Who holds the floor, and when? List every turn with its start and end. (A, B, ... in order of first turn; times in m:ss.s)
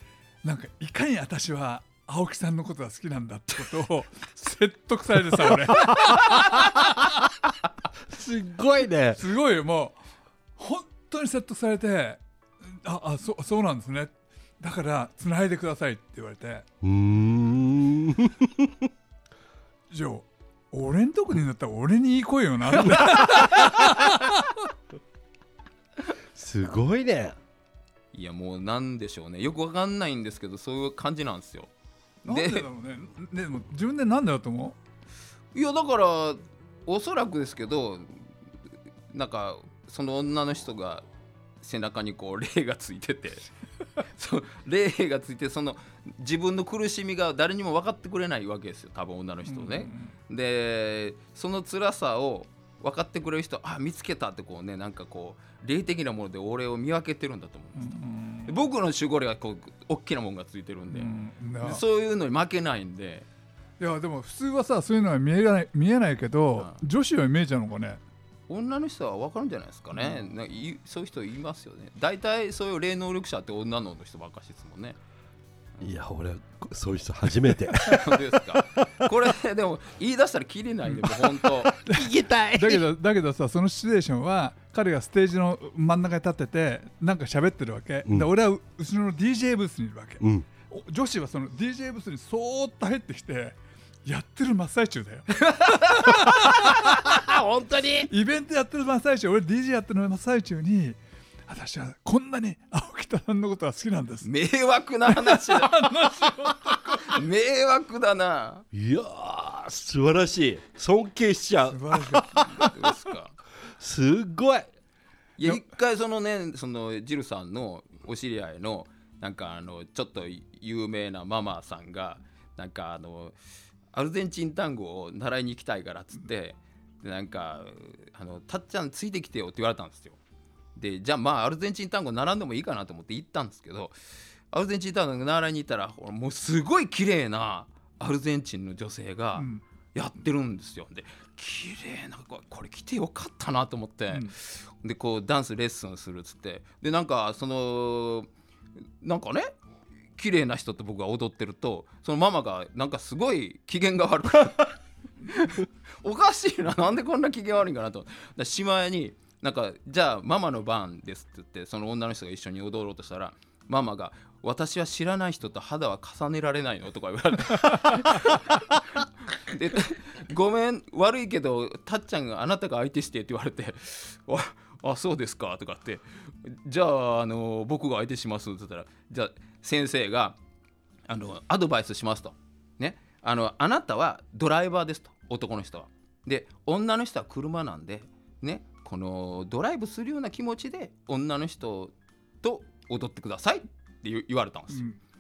0:00.4-0:06.7 A
0:06.0-0:06.9 B
0:08.1-0:09.2 B
0:09.2-0:10.0 A
0:10.6-0:16.6 A
0:16.8-0:18.9 B
0:19.9-0:24.5 A
0:23.1-0:23.5 C
0:26.3-0:27.4 B
0:28.1-0:31.7 C
0:32.3-0:32.7 C
0:32.3-0:34.8 A
0:35.5-0:38.3 C
0:39.1-0:41.0 C
0:41.6-0:43.4 C
0:44.2-0:58.0 C
0:49.5-0:50.1 A
0:57.8-0:58.5 A
0:58.5-1:01.1 C
1:00.9-1:01.8 A
1:01.6-1:03.3 C
1:03.8-1:08.0 A
1:08.5-1:15.0 C
1:15.8-1:18.2 B
1:17.8-1:21.8 C
1:20.9-1:21.2 A
1:21.3-1:22.8 B
1:21.9-1:37.0 A
1:30.2-1:30.5 B
1:35.5-1:36.0 C
1:36.8-1:38.1 B
1:38.1-1:44.3 A
1:44.2-1:45.9 C
1:45.1-1:47.2 A
1:47.0-1:48.6 C
1:48.7-1:52.7 B
1:51.7-1:52.6 A
1:52.5-1:53.4 C
1:53.8-1:54.7 B
1:55.4-2:03.4 C
2:03.9-2:10.2 C
2:10.8-2:14.0 C
2:14.5-2:28.3 C
2:19.4-2:19.6 A
2:29.0-2:29.5 C
2:30.2-3:00.4 C
3:01.1-3:14.8 C
3:14.7-3:15.0 A